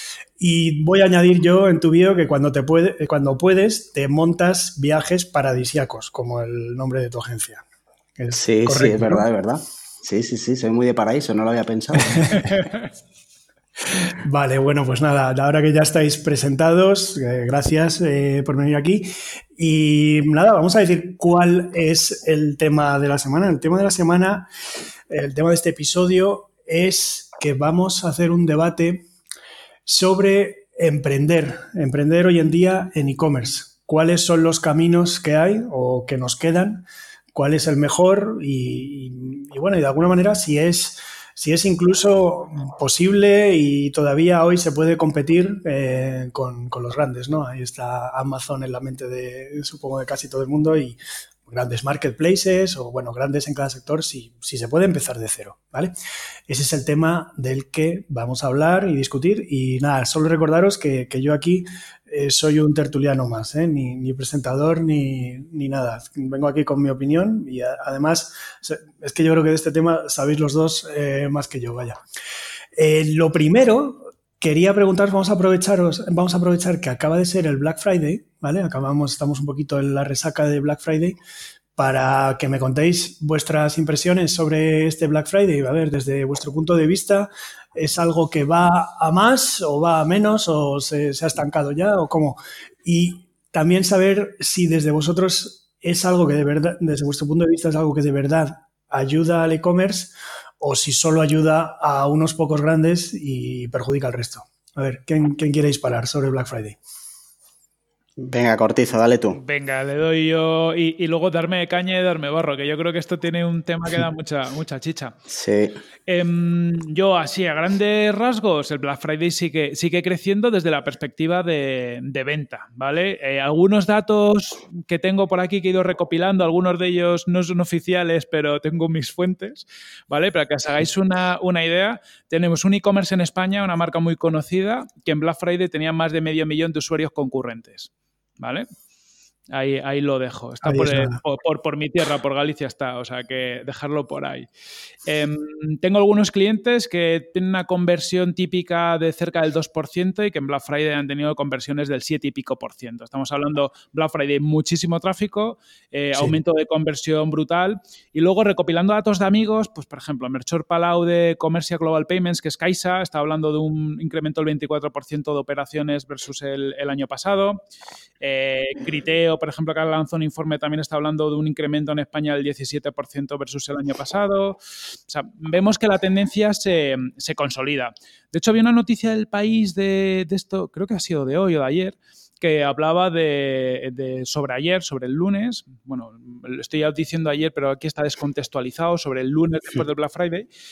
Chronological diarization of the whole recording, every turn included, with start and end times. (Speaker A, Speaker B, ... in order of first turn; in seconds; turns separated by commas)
Speaker A: 0.4-7.6, Speaker A: 8.2-9.2, Speaker B: 8.3-12.4, Speaker A: 12.0-12.5, Speaker A: 14.1-24.5, Speaker A: 25.1-29.1, Speaker A: 29.9-55.9, Speaker A: 56.5-72.0, Speaker A: 72.8-81.2, Speaker A: 81.8-106.8, Speaker B: 108.2-109.4, Speaker C: 109.3-115.2, Speaker B: 115.3-115.8, Speaker C: 116.1-138.7, Speaker C: 139.5-144.5, Speaker A: 140.6-141.2, Speaker C: 145.1-167.6, Speaker C: 168.2-190.5